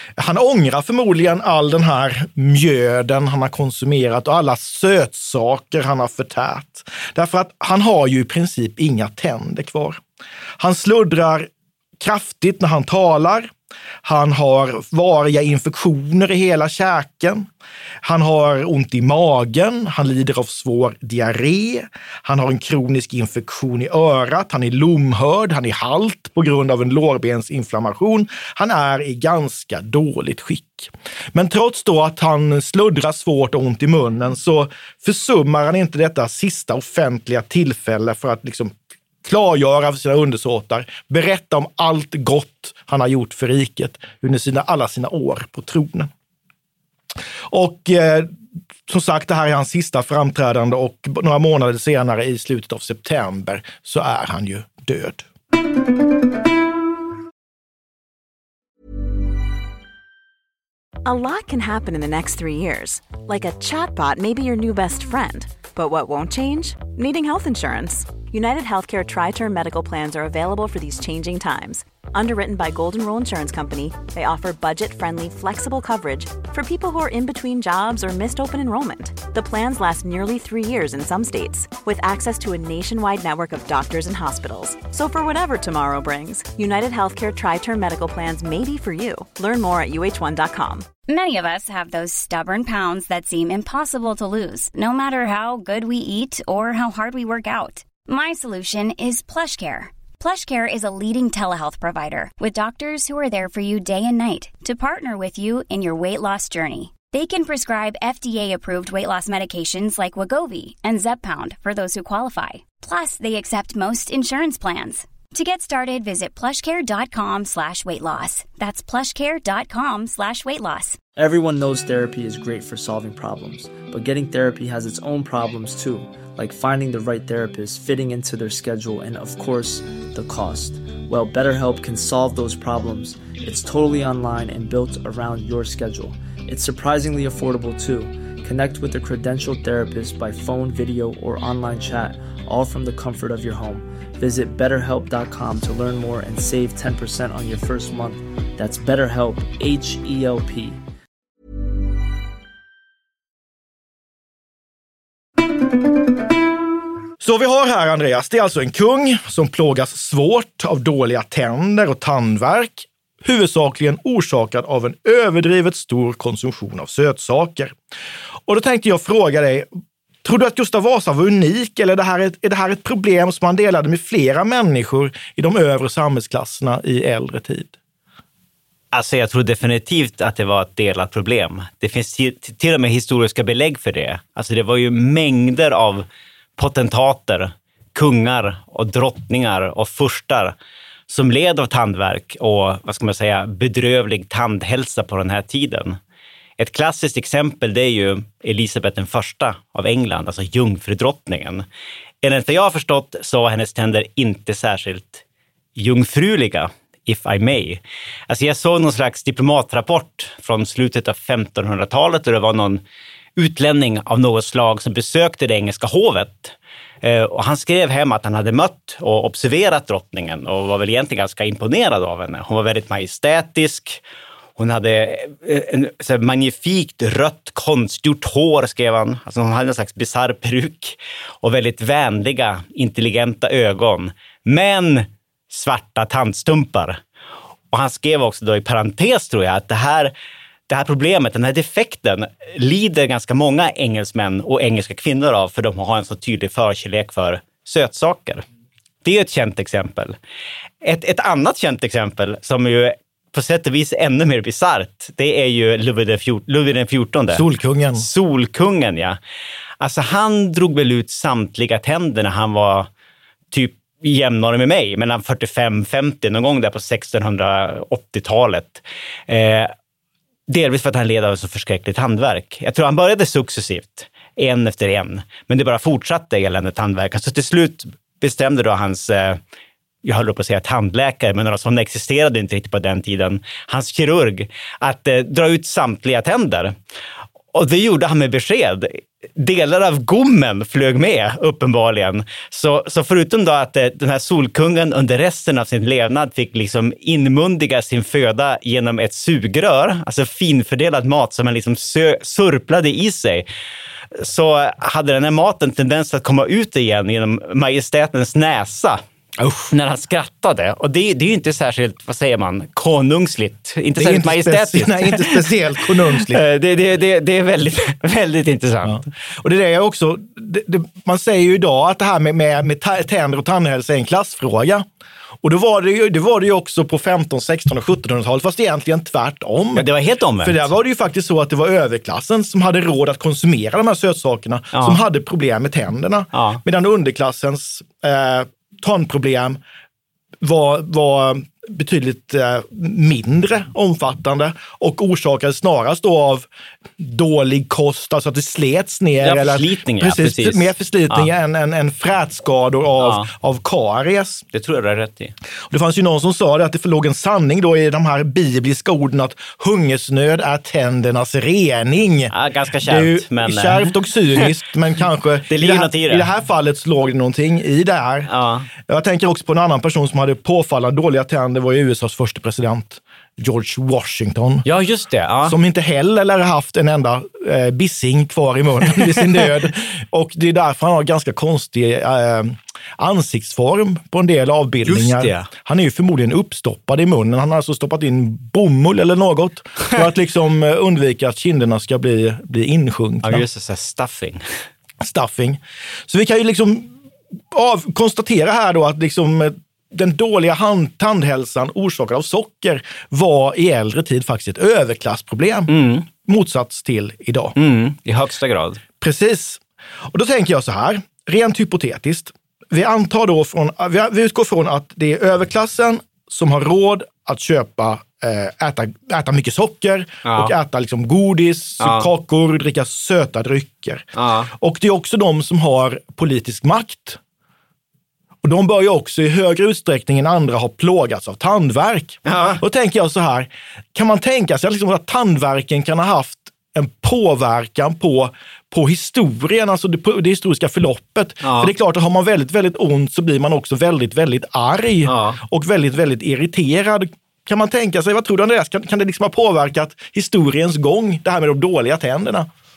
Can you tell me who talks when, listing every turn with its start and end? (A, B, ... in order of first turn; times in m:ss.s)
0:00.2-0:10.0 A
0:10.6-0:13.5 A
0:14.0-0:17.5 A
0:18.0-0:46.1 A
0:47.5-0:48.3 A
0:48.9-0:55.3 A
1:01.0-1:30.9 B
1:31.1-2:01.0 C
2:01.2-2:30.8 D
2:37.2-2:47.7 A
2:48.5-2:49.7 A
2:50.2-2:57.7 A
2:58.9-3:06.0 E
3:06.6-3:10.5 E
3:11.1-3:16.0 E
3:16.6-3:21.6 E
3:22.2-3:25.2 E
3:25.8-3:32.8 E
3:33.4-3:44.0 E
3:44.6-3:57.0 E
3:57.7-4:00.1 E
4:00.7-4:08.4 E
4:09.0-4:10.2 E
4:10.8-4:17.4 E
4:17.3-4:18.1 A
4:18.0-4:19.2 E
4:19.8-4:22.9 E
4:23.5-4:29.7 E
4:30.5-4:39.4 E
4:40.0-4:46.8 E
4:47.5-5:03.5 E
5:04.1-5:09.0 E
5:09.4-5:09.7 A
5:09.7-5:15.5 E
5:14.0-5:16.4 A
5:16.1-5:19.0 E
5:18.8-5:24.8 A
5:25.4-5:29.9 A
5:29.7-5:30.7 E
5:30.4-5:39.6 A
5:34.7-5:35.0 E
5:36.3-5:36.6 E
5:40.4-5:54.4 A
5:49.2-5:51.3 E
5:53.0-5:53.3 E
5:54.5-5:55.3 E
5:55.7-6:08.3 A
6:02.3-6:04.5 E
6:05.5-6:06.3 E
6:08.3-6:08.7 E
6:08.9-6:14.6 A
6:14.6-6:15.6 E
6:15.4-6:33.4 A
6:24.8-6:25.5 E
6:33.2-6:34.4 E
6:35.0-6:37.0 A
6:37.5-6:45.7 A
6:45.7-6:46.1 E
6:46.2-6:47.5 A
6:47.6-6:48.8 E
6:49.0-6:49.6 A
6:50.1-7:07.2 A
7:00.2-7:00.5 E
7:01.8-7:02.1 E
7:04.2-7:04.5 E
7:08.4-7:32.5 A
7:12.2-7:12.6 E
7:21.4-7:21.7 E
7:25.0-7:25.4 E